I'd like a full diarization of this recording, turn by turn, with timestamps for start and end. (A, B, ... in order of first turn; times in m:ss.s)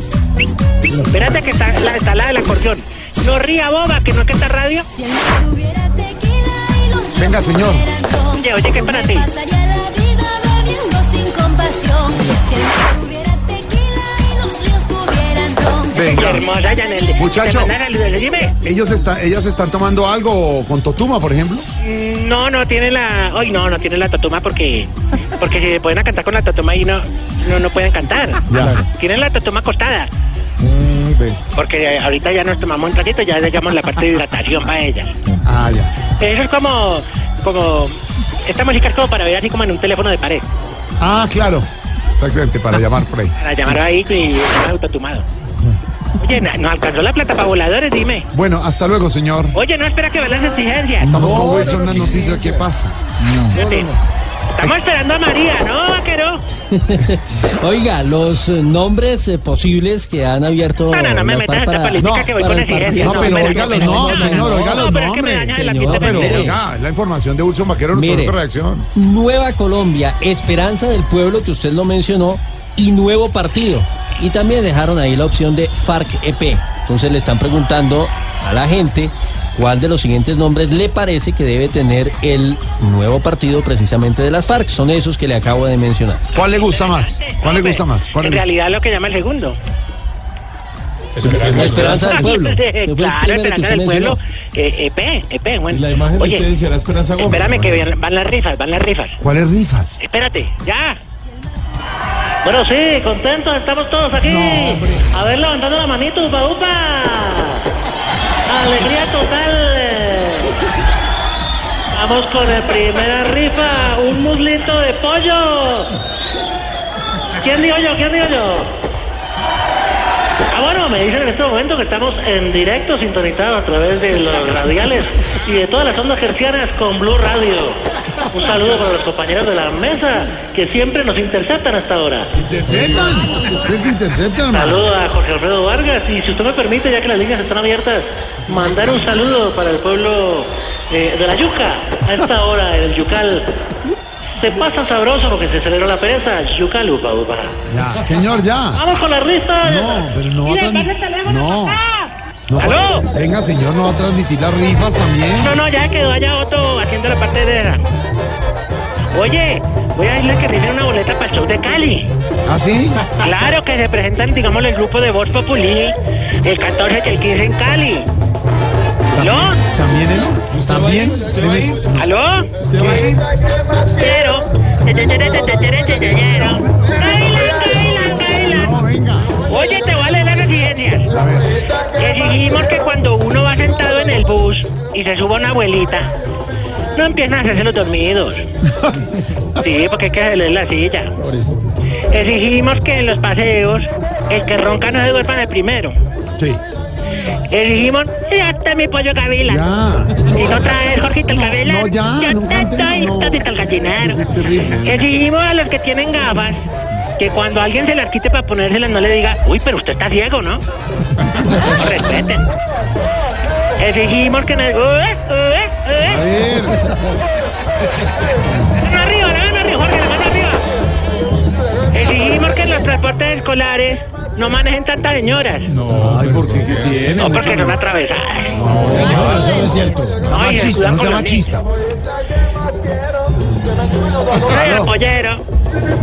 0:00.9-0:01.4 A
0:01.1-0:04.9 B
0:05.0-0:16.4 C
0:07.2-0:07.9 A
0:08.3-0:09.3 B
0:15.9-0:16.5 A
0:16.0-0:18.6 B
0:17.2-0:17.7 A
0:18.6-0:21.7 A
0:21.8-0:30.1 B
0:28.5-0:28.8 A
0:30.6-0:31.4 A
0:31.5-0:35.1 B
0:35.4-0:35.9 A
0:36.2-0:40.4 B
0:41.0-0:43.3 A
0:43.4-0:45.2 B
0:46.2-0:48.3 B
0:48.3-0:49.6 A
0:49.5-0:51.2 B
0:51.0-0:53.0 A
0:51.1-0:52.7 D
0:53.5-0:53.9 B
0:53.6-0:53.9 D
0:54.6-0:56.4 B
0:56.7-1:04.9 E
1:00.9-1:06.5 B
1:02.0-1:02.4 A
1:03.0-1:08.9 A
1:05.5-1:06.6 E
1:07.9-1:08.4 E
1:09.0-1:26.2 E
1:26.3-1:28.5 A
1:26.4-1:29.6 B
1:31.2-1:32.1 D
1:31.2-1:34.2 E
1:31.2-1:31.6 A
1:31.5-1:36.5 B
1:35.7-1:37.8 D
1:37.3-1:39.2 B
1:39.2-1:40.0 A
1:40.0-1:41.0 B
1:42.4-1:47.7 B
1:44.2-1:45.1 A
1:48.5-1:50.6 B
1:51.9-1:55.9 B
1:57.4-1:58.8 B
2:00.5-2:12.3 B
2:12.4-2:14.9 A
2:14.5-2:23.6 B
2:24.4-2:27.6 B
2:27.7-2:28.8 A
2:28.7-2:33.1 B
2:29.6-2:31.8 A
2:32.5-2:35.6 A
2:35.3-2:37.8 B
2:39.1-2:42.1 B
2:42.5-2:43.1 A
2:43.1-2:48.1 B
2:49.1-2:52.1 A
2:49.2-2:49.6 B
2:50.5-2:51.8 D
2:52.0-2:52.5 B
2:52.6-2:53.2 D
2:52.7-2:53.2 A
2:54.0-2:58.8 B
2:58.4-2:59.4 A
2:59.4-3:01.1 B
3:01.1-3:01.6 A
3:01.9-3:06.1 B
3:06.9-3:08.5 B
3:08.7-3:09.2 A
3:09.6-3:11.2 B
3:12.0-3:16.0 B
3:17.5-3:19.7 B
3:19.5-3:20.4 A
3:20.2-3:24.2 B
3:21.3-3:23.5 A
3:24.0-3:25.1 A
3:24.8-3:26.6 B
3:27.2-3:30.6 B
3:31.4-3:32.5 B
3:33.8-3:36.3 B
3:36.0-3:36.9 A
3:38.8-3:40.6 B
3:41.9-3:45.7 B
3:45.7-3:47.8 A
3:46.0-3:46.6 D
3:47.2-3:48.8 B
3:48.5-3:51.6 A
3:48.7-3:50.2 D
3:49.1-3:50.0 C
3:50.2-3:51.5 B
3:54.4-3:55.4 B
3:54.5-3:54.9 A